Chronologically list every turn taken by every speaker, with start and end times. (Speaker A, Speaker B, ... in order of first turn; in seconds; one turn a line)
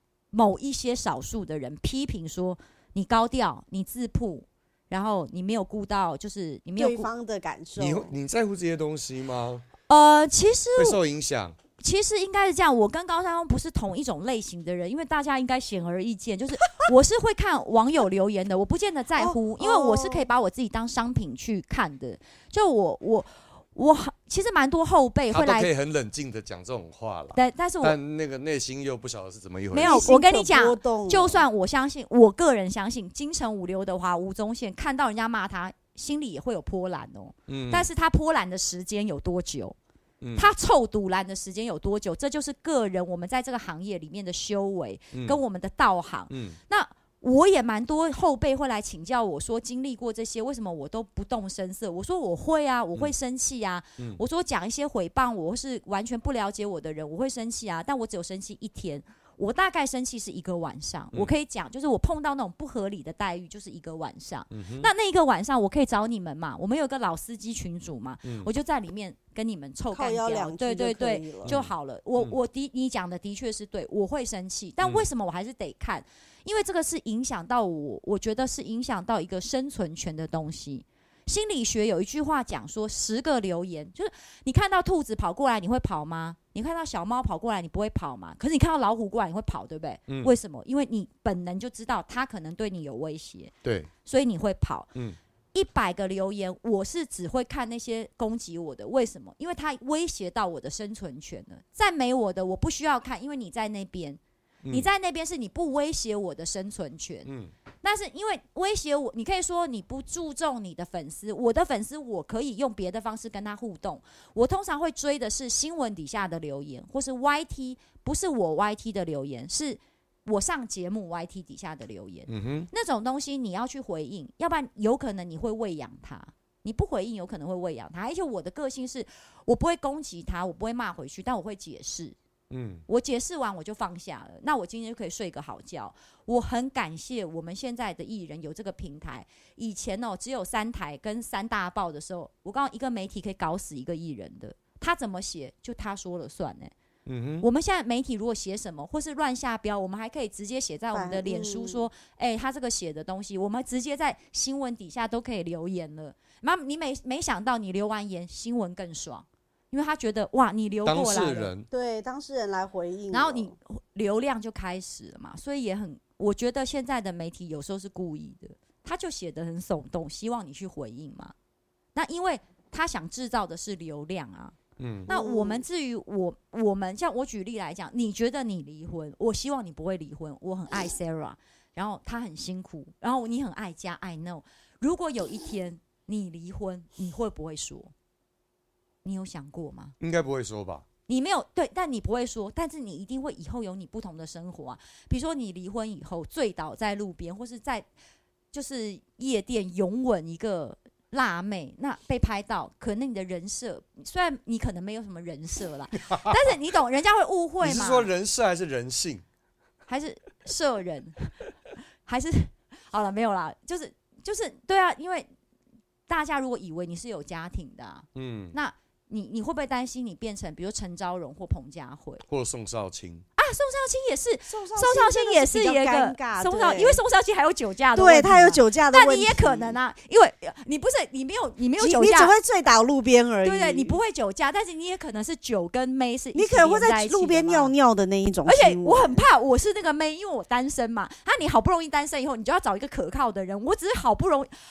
Speaker A: 0.3-7.1
Speaker B: 6.8-8.1
Speaker C: 7.8-9.6
Speaker A: 9.9-11.0
Speaker C: 10.8-11.6
Speaker A: 11.8-25.7
Speaker B: 19.2-20.2
Speaker C: 25.3-30.1
Speaker A: 27.3-27.9
Speaker A: 29.7-39.8
Speaker B: 29.8-31.4
Speaker C: 37.5-37.9
Speaker C: 40.2-40.5
Speaker A: 40.4-93.5
Speaker C: 45.1-45.4
Speaker C: 46.3-46.6
Speaker C: 64.5-64.9
Speaker C: 68.2-68.5
Speaker B: 69.9-71.5
Speaker C: 71.5-72.3
Speaker C: 74.8-75.1
Speaker C: 90.1-90.3
Speaker C: 93.6-93.9
Speaker A: 94.0-94.9
Speaker A: 95.5-107.3
Speaker C: 104.6-104.9
Speaker C: 107.2-107.5
Speaker A: 107.8-132.2
Speaker C: 122.3-122.7
Speaker C: 132.5-132.8
Speaker A: 132.9-146.7
Speaker C: 147.1-147.5
Speaker A: 147.4-161.5
Speaker B: 150.9-151.8
Speaker C: 160.8-161.7
Speaker B: 161.7-163.5
Speaker A: 163.1-171.3
Speaker A: 171.9-187.9
Speaker C: 174.8-175.1
Speaker B: 175.1-175.6
Speaker A: 189.0-189.9
Speaker C: 190.0-190.8
Speaker A: 191.1-197.9
Speaker A: 198.5-208.1
Speaker C: 207.6-209.2
Speaker A: 209.9-211.4
Speaker A: 212.1-215.3
Speaker A: 216.1-222.2
Speaker C: 218.1-218.5
Speaker C: 222.3-223.2
Speaker A: 223.4-232.3
Speaker B: 224.5-227.0
Speaker B: 227.9-229.8
Speaker B: 231.8-234.0
Speaker A: 233.4-237.7
Speaker B: 236.3-239.2
Speaker A: 238.4-244.5